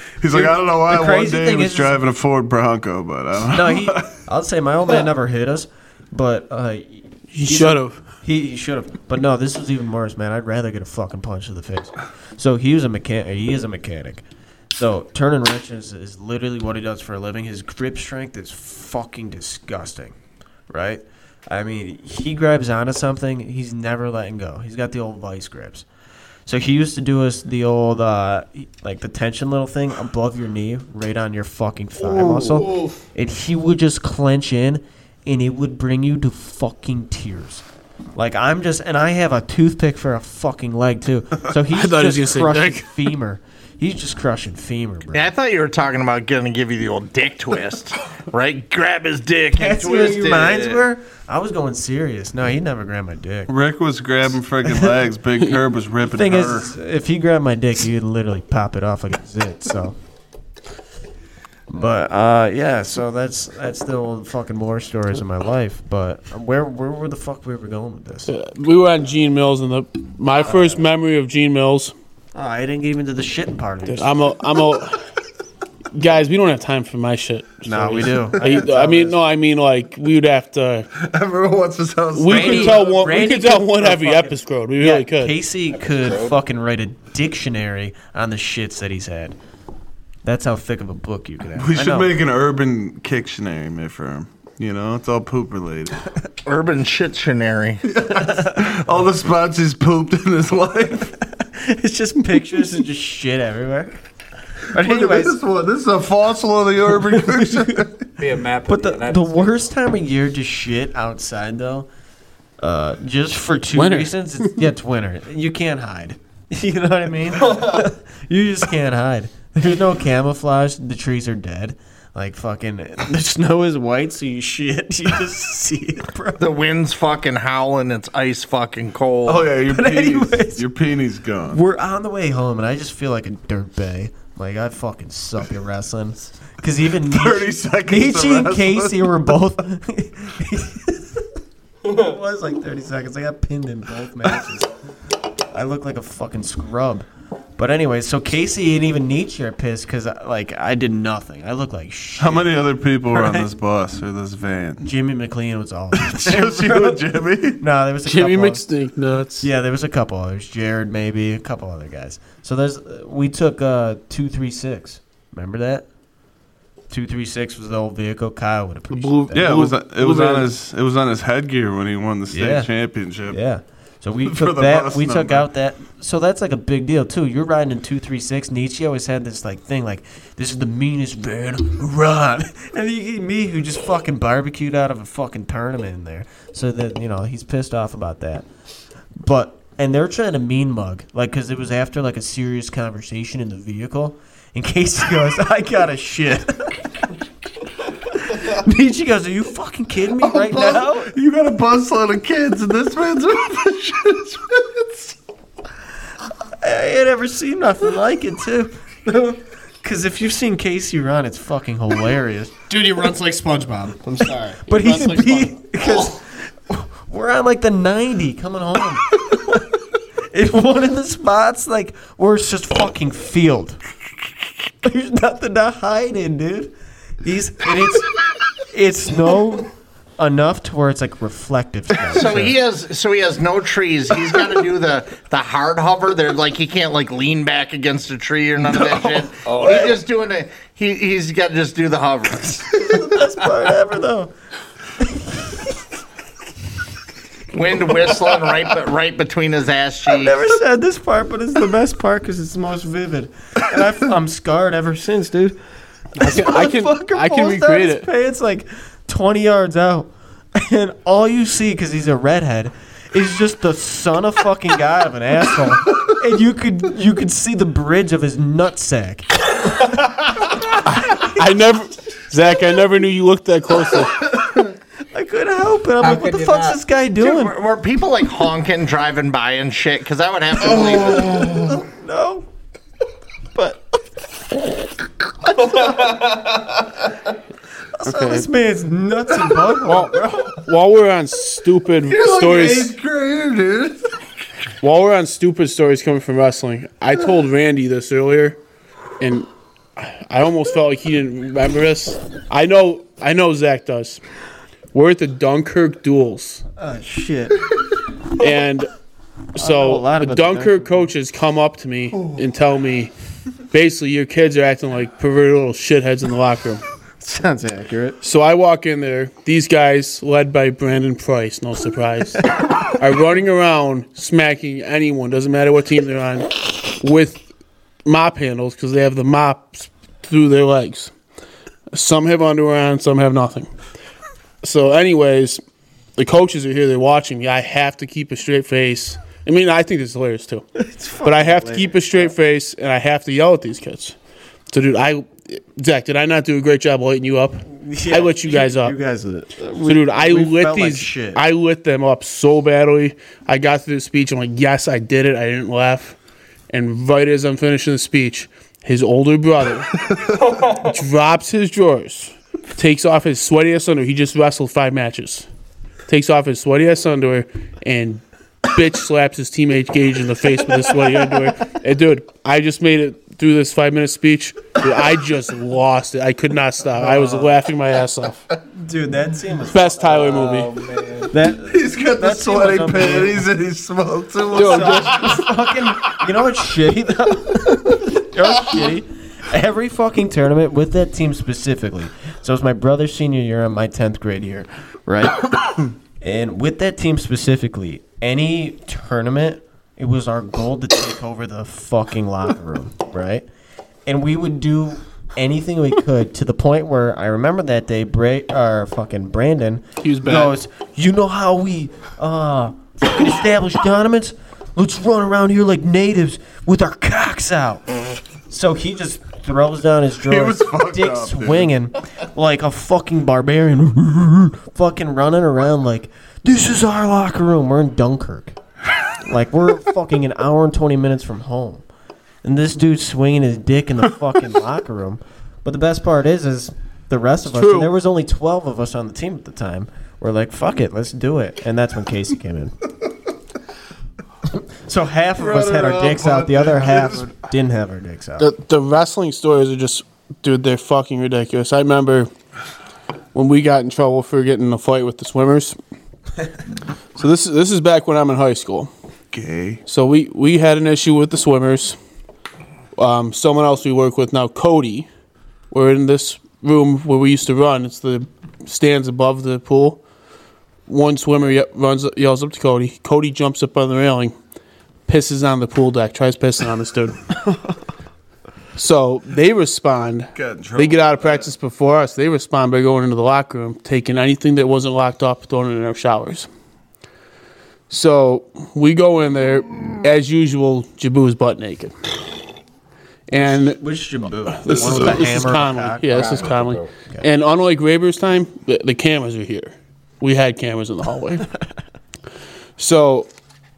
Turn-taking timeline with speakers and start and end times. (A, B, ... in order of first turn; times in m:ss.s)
0:00.2-0:04.2 A
0:00.3-0:02.0 B
0:03.5-0:20.2 B
0:07.3-0:08.0 C
0:20.7-0:25.8 B
0:26.5-0:37.6 B
0:32.0-0:33.0 C
0:38.2-0:45.3 B
0:41.7-0:43.1 C
0:45.1-0:50.8 D
0:49.5-0:53.5 B
0:53.5-0:56.7 A
0:56.1-1:00.0 B
1:01.7-1:08.3 B
1:08.3-1:11.9 C
1:10.4-1:10.8 B
1:12.4-1:14.1 B
1:13.9-1:15.1 C
1:15.9-1:20.9 C
1:17.7-1:19.2 B
1:20.9-1:23.1 A
1:22.1-1:25.4 C
1:22.3-1:29.4 B
1:25.7-1:26.3 E
1:30.2-1:32.2 B
1:31.6-1:36.0 A
1:36.4-1:37.8 D
1:37.9-1:41.1 A
1:38.1-1:38.6 B
1:41.3-1:44.0 B
1:44.7-1:45.4 B
1:44.7-1:47.9 A
1:47.1-1:47.9 B
1:48.2-1:49.7 E
1:48.7-1:51.9 B
1:52.6-2:06.5 B
1:53.8-1:54.2 C
2:06.4-2:09.5 D
2:09.3-2:11.6 A
2:09.7-2:10.7 B
2:11.5-2:21.2 B
2:17.0-2:19.4 A
2:21.9-2:24.7 B
2:25.5-2:33.5 B
2:32.2-2:34.9 A
2:34.8-2:38.6 B
2:35.9-2:37.6 A
2:38.0-2:39.5 C
2:39.4-2:45.8 B
2:46.9-2:49.5 B
2:48.9-2:50.5 C
2:49.3-2:53.4 A
2:52.3-2:52.7 B
2:53.3-3:08.5 B
2:54.2-2:55.5 A
3:09.2-3:16.9 B
3:18.1-3:21.1 B
3:20.2-3:25.1 A
3:26.6-3:32.6 B
3:32.7-3:36.1 F
3:34.2-3:39.7 B
3:40.3-3:43.8 B
3:44.8-3:52.6 B
3:52.1-4:02.7 D
3:59.4-4:00.0 E
4:02.8-4:04.3 B
4:05.0-4:05.6 B
4:07.5-4:10.4 D
4:10.1-4:15.6 B
4:16.2-4:30.5 B
4:16.2-4:18.1 C
4:30.9-4:34.3 C
4:35.1-4:37.6 B
4:36.0-4:36.8 E
4:37.2-4:41.7 D
4:41.0-4:42.5 B
4:43.5-4:44.0 B
4:45.5-4:46.3 B
4:48.0-4:50.5 B
4:48.1-4:48.5 C
4:49.8-4:53.0 C
4:52.0-4:54.0 A
4:54.8-4:58.6 C
4:59.2-5:04.2 C
5:04.9-5:06.6 C
5:06.8-5:07.7 B
5:08.4-5:08.9 C
5:09.6-5:13.1 C
5:09.6-5:11.1 B
5:13.7-5:16.8 C
5:17.2-5:18.2 B
5:18.2-5:27.4 C
5:28.0-5:31.1 C
5:31.9-5:33.7 C
5:34.6-5:35.6 C
5:36.2-5:40.6 C
5:40.8-5:42.3 B
5:41.2-5:44.2 C
5:44.7-5:49.0 C
5:47.7-5:51.4 B
5:49.8-5:56.2 C
5:56.7-6:05.5 C
6:06.1-6:18.4 C
6:17.0-6:17.5 B
6:18.8-6:20.4 B
6:19.7-6:20.9 C
6:21.2-6:23.5 B
6:21.7-6:25.1 A
6:24.5-6:25.5 C
6:24.5-6:35.7 B
6:36.2-6:43.5 B
6:44.1-6:58.0 B
6:50.0-6:50.6 C
6:58.5-7:08.6 B
7:00.2-7:01.7 A
7:09.2-7:11.8 B
7:12.4-7:22.8 B
7:17.5-7:17.9 C
7:24.5-7:28.5 B
7:25.4-7:27.4 A
7:28.4-7:32.3 C
7:33.3-7:35.8 C
7:37.2-7:38.9 C
7:39.3-7:39.8 A
7:39.9-7:42.0 C
7:43.0-7:45.1 C
7:45.7-7:50.0 C
7:50.9-7:54.3 C
7:55.1-7:57.2 C
7:58.8-8:06.5 C
8:00.4-8:01.5 A
8:07.9-8:12.0 C
8:13.3-8:13.8 C
8:13.3-8:16.5 B
8:14.4-8:21.5 C
8:16.1-8:16.9 E
8:22.8-8:23.3 C